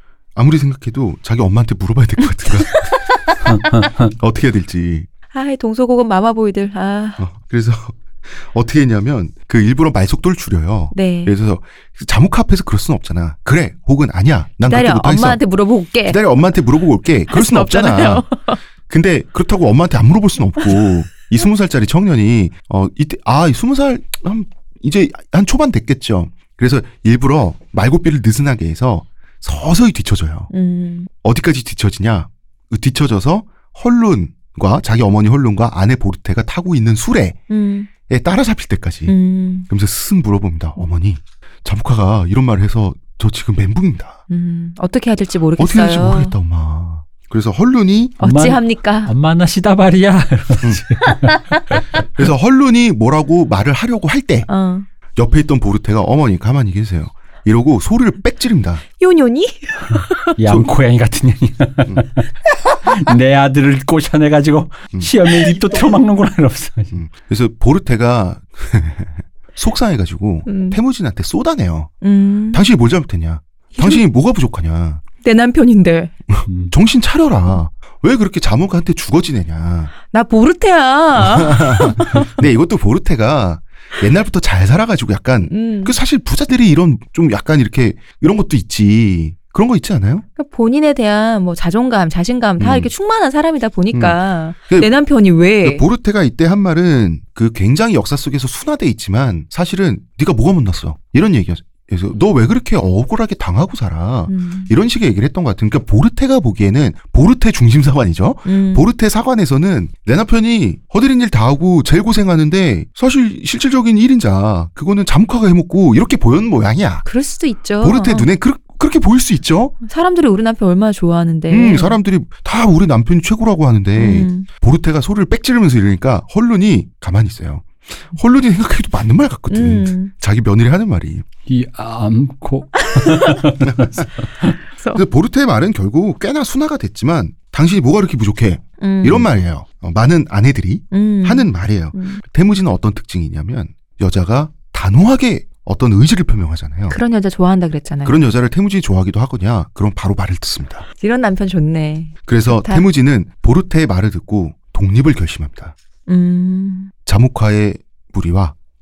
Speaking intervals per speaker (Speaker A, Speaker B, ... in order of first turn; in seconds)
Speaker A: 0.4-3.0, 4.1-5.1, 7.2-15.4, 16.1-18.3, 18.9-30.5, 31.2-37.4, 38.1-39.1, 39.7-44.2, 45.6-48.2, 52.1-54.5, 55.2-58.8, 60.4-60.7, 66.9-71.9, 72.5-75.0, 76.3-79.9, 81.2-90.2, 92.6-92.9, 93.9-94.9, 95.6-117.0, 117.8-119.8, 121.5-131.3, 133.6-134.1, 134.9-147.0, 148.1-150.9, 152.3-155.8, 157.1-158.6
Speaker B: 3.5-4.1, 48.2-52.3, 59.9-62.3, 62.8-66.9, 76.5-76.7, 131.5-134.5
Speaker C: 5.3-7.2, 10.9-11.3, 14.7-16.2, 17.3-18.6, 30.5-31.1, 37.5-37.9, 39.1-39.7, 44.3-46.4, 48.2-49.1, 54.5-54.9, 59.0-60.4, 70.5-70.8, 72.0-72.6, 73.8-74.0, 75.2-76.1, 80.1-82.3, 85.4-86.0, 90.4-95.9, 104.3-104.7, 108.5-108.9, 117.0-118.3, 119.8-122.0, 124.0-124.5, 129.5-130.1, 132.8-133.4, 138.8-139.3, 140.9-142.2, 146.9-148.2, 151.0-152.8, 156.1-156.9